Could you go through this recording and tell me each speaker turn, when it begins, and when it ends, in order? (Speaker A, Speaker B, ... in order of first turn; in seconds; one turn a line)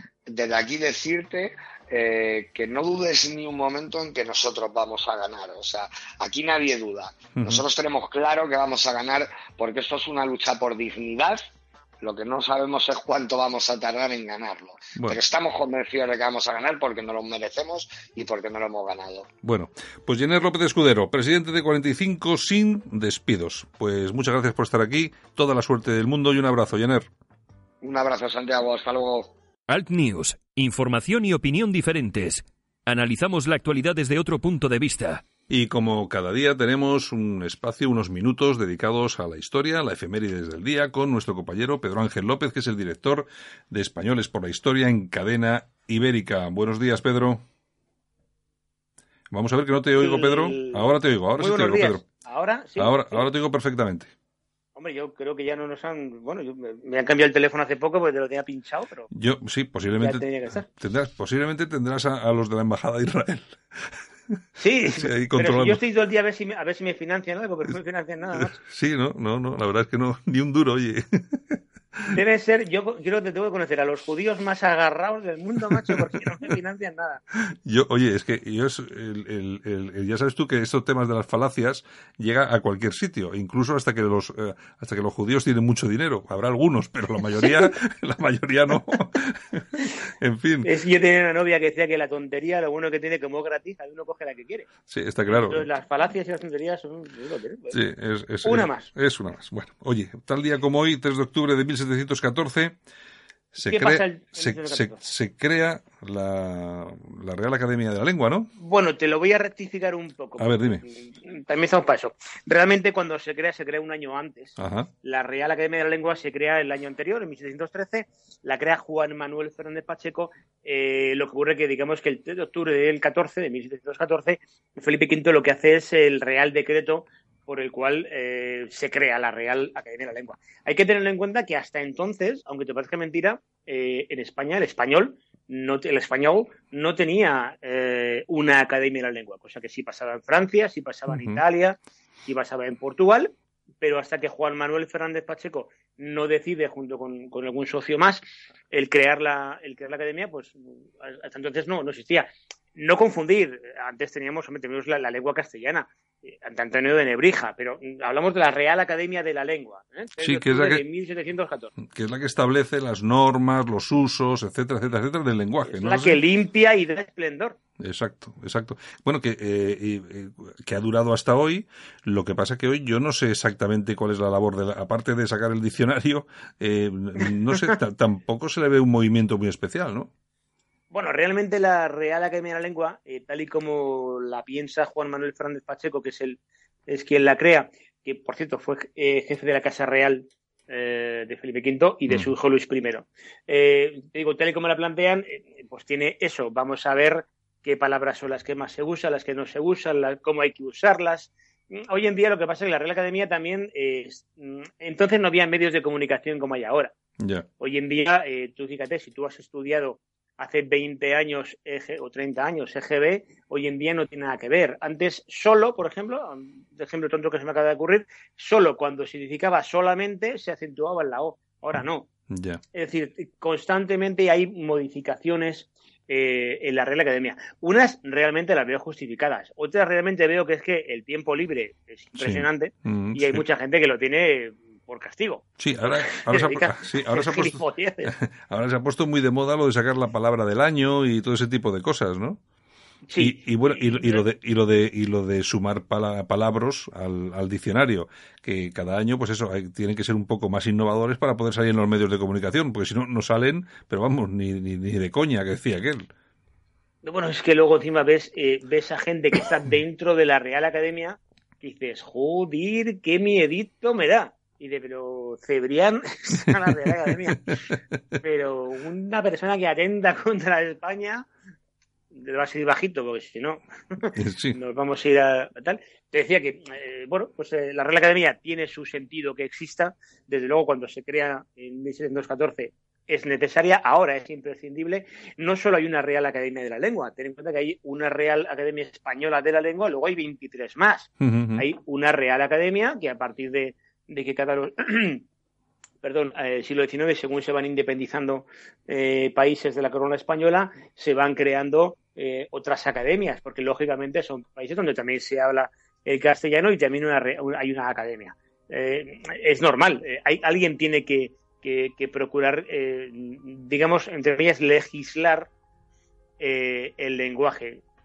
Speaker A: 0.3-11.4
Speaker B: 7.4-7.6
Speaker A: 12.0-19.3
Speaker B: 19.4-27.1
Speaker A: 27.8-29.3
Speaker C: 29.7-35.2
Speaker B: 35.5-47.4
Speaker B: 49.3-52.0
Speaker D: 50.0-53.3
Speaker B: 52.8-54.1
Speaker D: 54.8-59.1
Speaker B: 59.1-63.6
Speaker D: 60.0-60.6
Speaker D: 64.6-68.5
Speaker B: 64.9-65.8
Speaker B: 68.3-72.2
Speaker D: 72.1-77.2
Speaker B: 75.7-76.2
Speaker B: 77.5-90.7
Speaker D: 90.6-94.7
Speaker B: 94.9-95.7
Speaker D: 95.3-97.8
Speaker B: 97.7-102.8
Speaker D: 98.4-98.9
Speaker B: 103.5-108.5
Speaker D: 103.7-105.0
Speaker D: 108.6-161.7
Speaker B: 110.4-110.8
Speaker B: 114.6-114.9
Speaker B: 141.1-141.4
Speaker B: 160.2-160.8
Speaker B: 161.8-166.2
Speaker D: 165.7-167.6
Speaker B: 167.8-180.1
Speaker D: 180.9-206.9
Speaker B: 207.2-207.5
Speaker D: 207.6-222.1
Speaker B: 222.3-222.6
Speaker D: 222.7-238.1
Speaker B: 232.2-233.4
Speaker B: 235.6-242.4
Speaker D: 243.1-244.3
Speaker B: 243.2-256.1
Speaker D: 257.0-267.6
Speaker D: 268.2-271.3
Speaker D: 272.1-295.2
Speaker B: 274.1-274.6
Speaker B: 291.2-291.7
Speaker D: 296.0-315.5
Speaker D: 316.4-317.8